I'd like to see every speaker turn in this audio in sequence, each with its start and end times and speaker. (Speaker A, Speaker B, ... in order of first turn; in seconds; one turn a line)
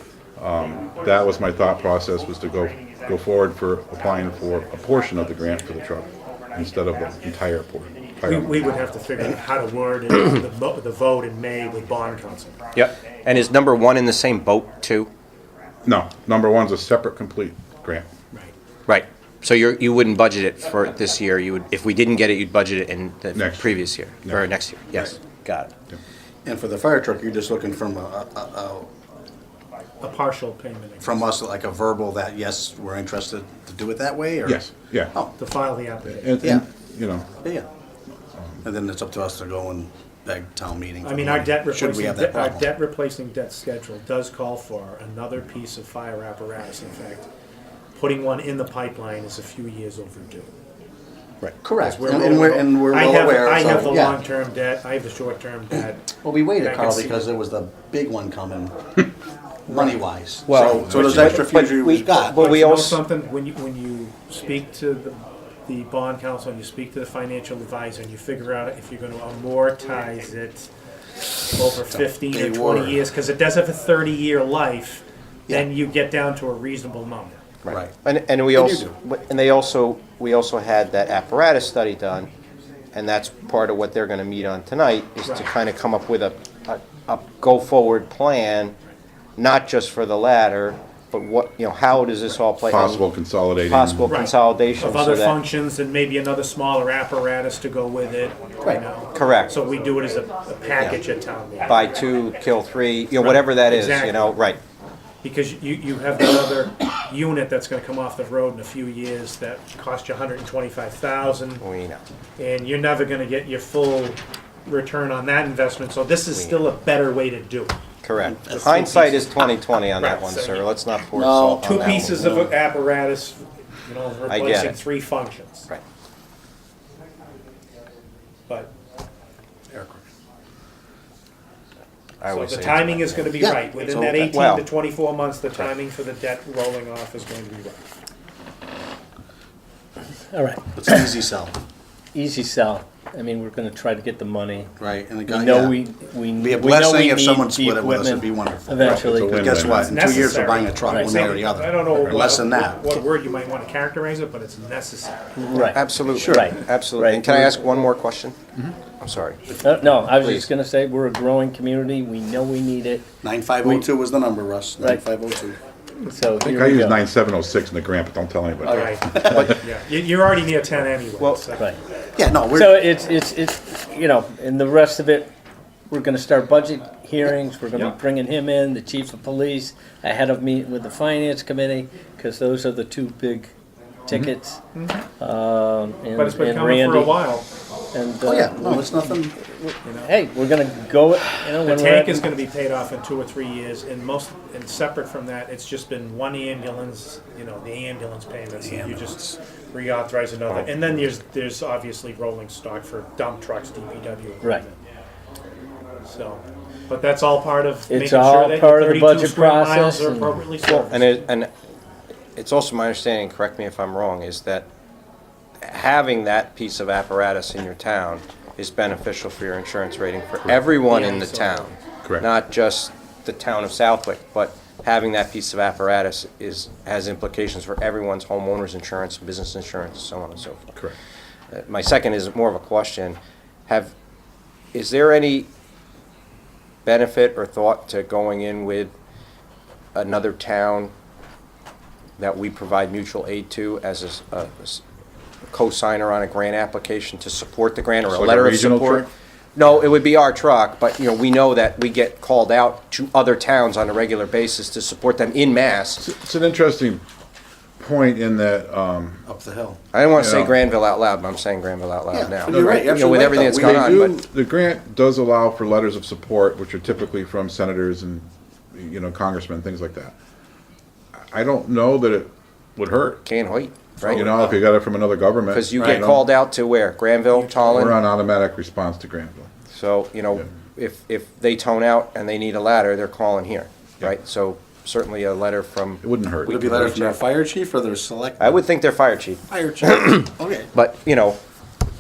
Speaker A: 0.4-8.6
Speaker B: 8.2-12.6
Speaker C: 12.7-15.1
Speaker A: 15.9-18.1
Speaker C: 18.9-25.7
Speaker A: 23.3-24.4
Speaker D: 26.4-28.9
Speaker B: 30.0-31.2
Speaker D: 31.0-35.3
Speaker A: 34.5-35.1
Speaker B: 35.4-36.6
Speaker A: 36.1-37.3
Speaker D: 37.4-37.7
Speaker D: 38.6-42.7
Speaker B: 41.0-47.3
Speaker B: 48.0-50.5
Speaker D: 51.5-54.2
Speaker B: 51.8-57.3
Speaker D: 56.2-58.8
Speaker D: 59.7-62.4
Speaker C: 60.5-63.0
Speaker A: 60.9-61.5
Speaker B: 62.3-70.7
Speaker B: 71.5-77.4
Speaker D: 71.9-73.0
Speaker C: 77.6-82.3
Speaker D: 78.5-78.9
Speaker C: 82.9-88.8
Speaker C: 89.4-93.0
Speaker A: 92.7-94.2
Speaker C: 93.7-95.4
Speaker B: 94.1-101.8
Speaker C: 99.1-99.6
Speaker C: 101.7-104.6
Speaker B: 103.2-104.3
Speaker B: 105.2-111.6
Speaker C: 111.6-112.0
Speaker B: 112.4-117.8
Speaker C: 116.3-116.6
Speaker C: 118.0-122.4
Speaker D: 118.2-119.2
Speaker B: 119.2-120.7
Speaker D: 121.2-122.5
Speaker B: 121.6-125.7
Speaker C: 124.3-124.8
Speaker D: 129.7-130.0
Speaker C: 132.2-133.3
Speaker B: 132.3-137.9
Speaker D: 133.4-134.3
Speaker C: 134.3-134.7
Speaker E: 140.3-141.1
Speaker D: 140.8-141.6
Speaker E: 142.1-144.7
Speaker D: 144.8-145.8
Speaker E: 145.3-150.0
Speaker D: 146.4-152.8
Speaker A: 148.8-150.2
Speaker B: 149.8-155.6
Speaker E: 150.9-151.2
Speaker A: 152.0-152.3
Speaker E: 155.3-157.6
Speaker C: 155.6-158.4
Speaker D: 156.2-156.5
Speaker C: 159.0-159.5
Speaker E: 159.6-163.1
Speaker C: 160.0-160.5
Speaker D: 163.2-165.6
Speaker E: 163.6-163.9
Speaker E: 166.0-167.0
Speaker A: 166.4-169.4
Speaker D: 168.6-169.6
Speaker B: 168.7-171.7
Speaker C: 171.2-171.4
Speaker D: 172.2-172.9
Speaker E: 172.5-175.3
Speaker E: 175.9-183.5
Speaker E: 184.1-184.6
Speaker B: 184.8-185.0
Speaker E: 185.2-187.2
Speaker B: 186.2-187.5
Speaker E: 187.9-192.3
Speaker D: 188.2-189.3
Speaker B: 189.8-190.1
Speaker B: 191.6-204.7
Speaker D: 198.6-199.4
Speaker B: 206.0-211.3
Speaker E: 207.9-210.4
Speaker C: 210.6-211.5
Speaker C: 212.4-214.7
Speaker C: 215.6-230.6
Speaker B: 220.7-221.8
Speaker C: 231.5-233.9
Speaker C: 234.7-235.5
Speaker C: 236.8-238.9
Speaker C: 239.9-240.9
Speaker C: 242.2-244.8
Speaker C: 245.5-256.1
Speaker A: 248.1-249.1
Speaker A: 256.0-257.0
Speaker A: 257.8-259.2
Speaker D: 259.3-259.8
Speaker C: 259.9-264.2
Speaker A: 260.1-260.6
Speaker D: 262.1-264.2
Speaker A: 262.5-262.9
Speaker A: 263.5-270.1
Speaker A: 271.3-273.2
Speaker C: 273.2-274.5
Speaker A: 274.0-276.3
Speaker C: 275.5-277.9
Speaker B: 275.8-276.2
Speaker B: 277.3-277.9
Speaker A: 277.7-279.5
Speaker C: 279.7-287.0
Speaker A: 286.0-287.1
Speaker D: 286.5-288.6
Speaker C: 288.4-291.4
Speaker D: 289.5-290.7